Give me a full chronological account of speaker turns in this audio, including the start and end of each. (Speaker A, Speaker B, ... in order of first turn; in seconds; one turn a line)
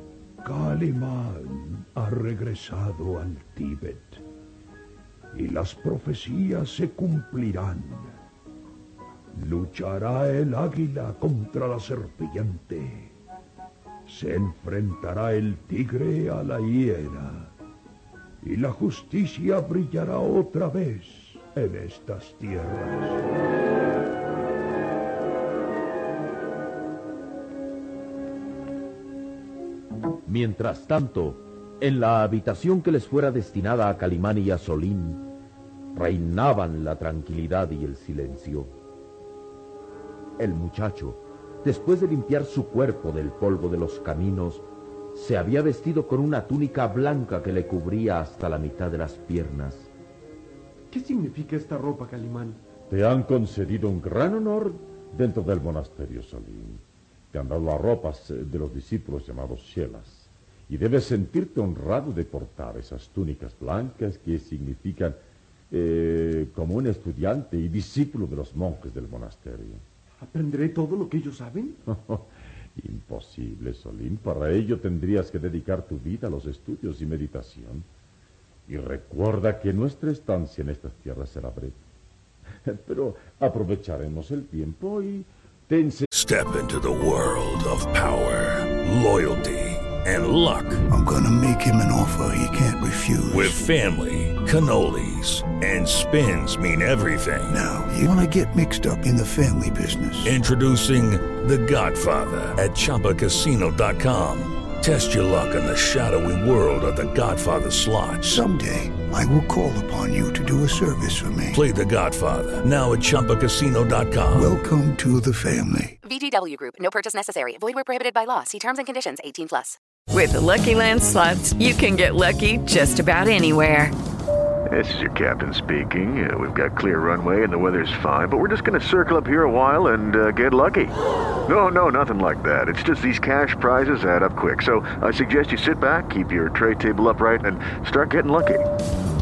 Speaker A: 0.4-4.2
Speaker A: 5.3-8.2
Speaker A: 9.3-13.1
Speaker A: 14.1-17.5
Speaker A: 18.4-23.2
Speaker B: 30.2-35.2
Speaker B: 35.9-38.7
Speaker B: 40.4-49.9
Speaker C: 50.9-52.6
Speaker D: 52.9-69.8
Speaker C: 70.2-71.8
Speaker D: 71.9-77.9
Speaker D: 78.7-81.8
Speaker D: 82.6-86.1
Speaker E: 86.1-90.8
Speaker F: 90.9-93.6
Speaker E: 93.3-97.6
Speaker F: 97.5-100.4
Speaker E: 100.2-108.4
Speaker F: 108.2-111.6
Speaker E: 111.5-114.5
Speaker F: 114.3-116.0
Speaker G: 116.0-119.8
Speaker H: 120.1-123.9
Speaker I: 124.7-138.7